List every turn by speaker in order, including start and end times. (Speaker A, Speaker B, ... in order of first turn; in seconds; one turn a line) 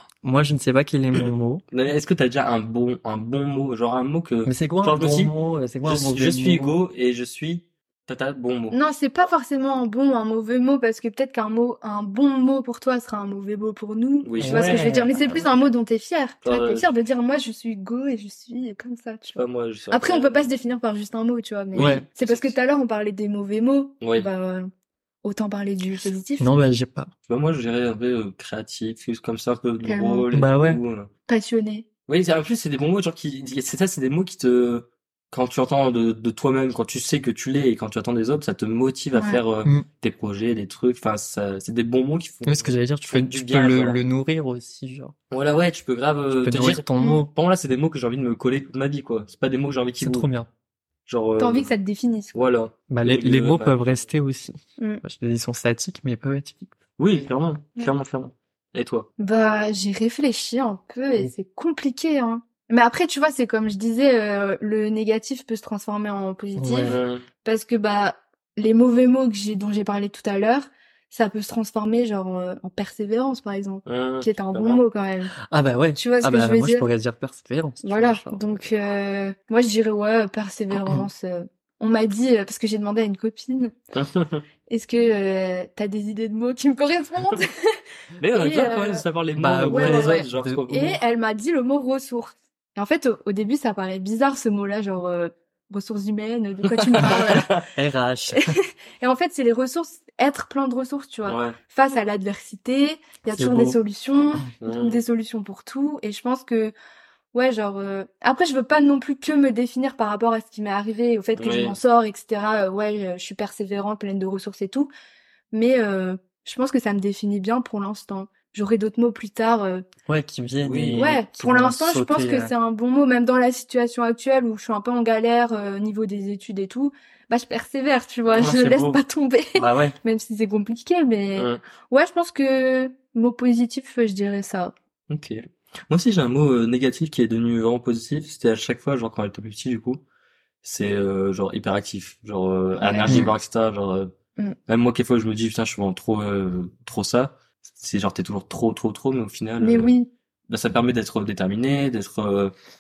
Speaker A: 0.2-1.6
Speaker B: 1.7-5.3
Speaker A: 4.5-6.8
Speaker B: 5.8-8.8
Speaker C: 8.7-24.7
Speaker B: 14.2-15.5
Speaker A: 14.4-15.1
Speaker B: 16.4-16.9
Speaker B: 19.4-20.5
Speaker B: 21.7-22.5
Speaker A: 21.8-22.0
Speaker B: 24.0-24.3
Speaker C: 25.2-26.6
Speaker A: 26.4-27.1
Speaker B: 27.3-31.1
Speaker C: 29.8-30.2
Speaker A: 30.3-30.8
Speaker C: 31.3-31.9
Speaker B: 32.1-44.0
Speaker C: 39.1-39.4
Speaker A: 42.4-45.1
Speaker B: 45.3-50.3
Speaker A: 46.3-47.3
Speaker A: 50.0-50.5
Speaker B: 51.0-51.7
Speaker C: 51.4-52.4
Speaker B: 52.3-54.0
Speaker A: 52.9-56.7
Speaker B: 57.0-59.1
Speaker C: 59.2-75.3
Speaker A: 66.5-67.0
Speaker B: 66.8-67.2
Speaker B: 73.8-74.8
Speaker A: 75.5-78.6
Speaker C: 76.0-76.8
Speaker C: 77.8-83.7
Speaker A: 80.8-81.0
Speaker B: 83.9-84.4
Speaker C: 84.7-87.8
Speaker B: 88.2-91.0
Speaker C: 88.3-89.0
Speaker A: 89.4-90.7
Speaker C: 89.7-97.5
Speaker B: 96.6-97.6
Speaker A: 97.7-98.5
Speaker C: 98.3-106.7
Speaker B: 101.2-101.6
Speaker A: 103.3-103.8
Speaker B: 104.6-105.0
Speaker C: 107.3-114.9
Speaker B: 111.4-111.8
Speaker C: 115.5-119.8
Speaker A: 120.0-122.5
Speaker B: 120.6-121.1
Speaker C: 120.9-134.7
Speaker B: 128.3-128.7
Speaker A: 128.4-128.9
Speaker A: 129.5-129.9
Speaker B: 131.3-131.6
Speaker B: 135.1-140.0
Speaker B: 140.6-144.1
Speaker C: 142.8-143.2
Speaker B: 144.7-149.9
Speaker C: 149.6-150.1
Speaker B: 150.5-152.5